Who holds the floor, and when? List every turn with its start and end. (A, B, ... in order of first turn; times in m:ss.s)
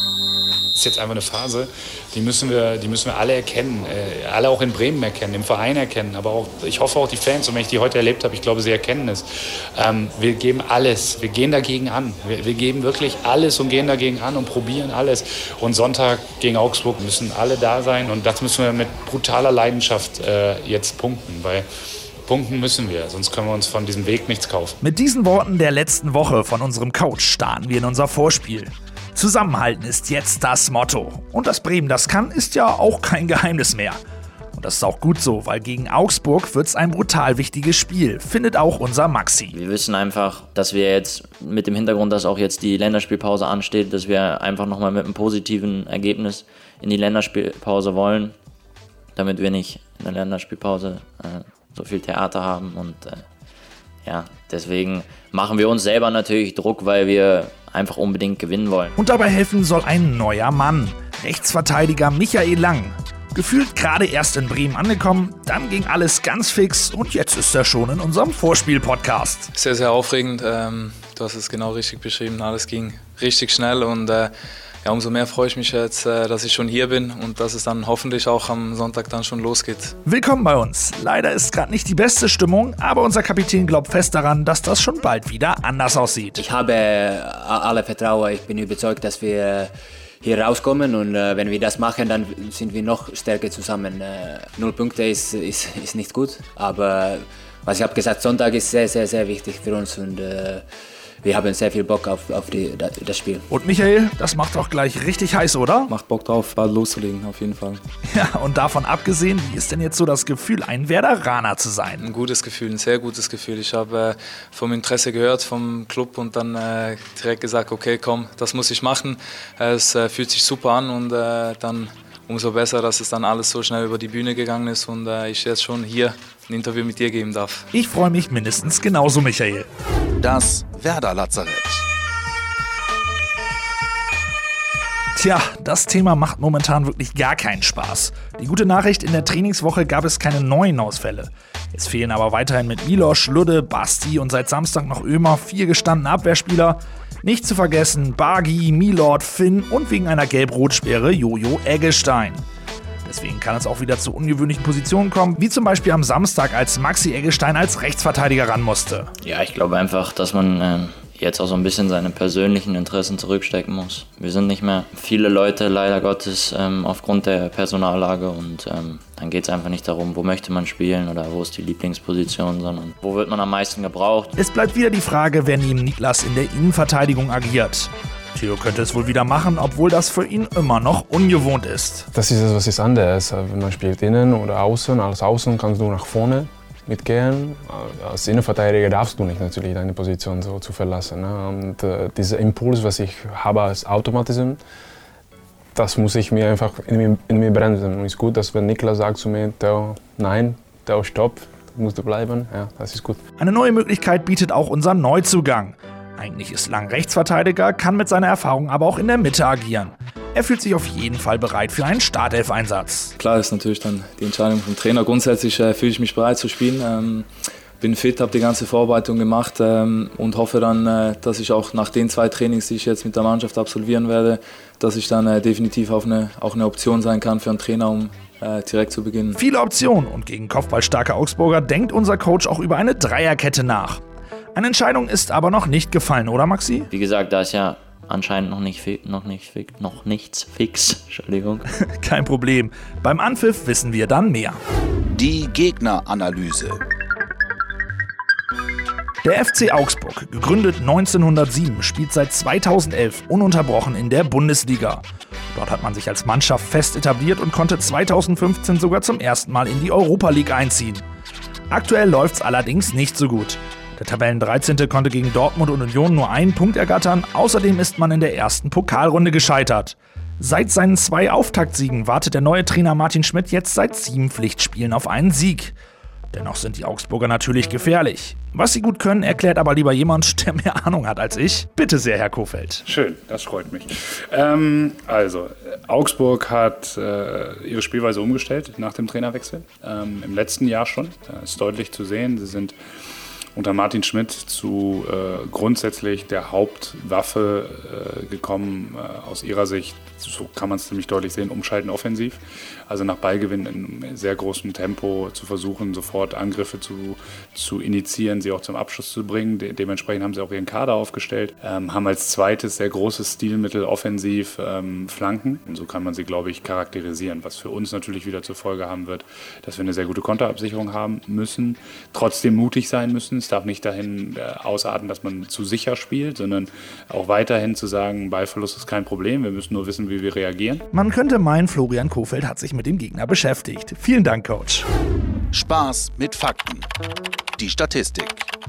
0:00.8-0:21.7 A
0:22.3-0:24.8 A
0:24.8-0:34.0 B
0:34.6-0:39.6 B
0:39.5-0:48.4 C
0:49.2-0:53.2 C
0:54.1-0:58.9 C
0:59.0-1:09.5 B
1:09.5-1:14.3 D
1:14.8-1:20.0 D
1:20.0-1:26.4 B
1:26.4-1:40.7 E
1:41.2-1:43.5 E
1:43.5-1:45.9 B
1:45.9-1:47.8 D
1:48.1-1:52.1 B
1:52.0-2:07.7 D
2:07.7-2:09.7 B
2:10.2-2:11.8 F
2:15.2-2:32.4 B
2:33.0-2:39.1 B
2:39.2-2:54.3 C
2:54.4-3:02.1 B
3:02.1-3:14.6 G
3:15.8-3:23.2 G
3:23.4-3:33.2 B
3:33.2-3:37.3 D
3:37.8-3:49.4 D
3:49.4-3:54.0 B
3:54.6-3:56.9 B
3:56.9-4:01.6 C
4:02.0-4:04.6 B
4:05.2-4:06.8 F
4:09.2-4:21.0 B
4:21.7-4:35.8 B
4:36.3-4:42.8 B
4:42.9-4:52.8 A
4:53.6-5:30.8 A
5:30.9-5:34.9 B
5:35.5-5:36.9 F
5:37.6-5:38.5 F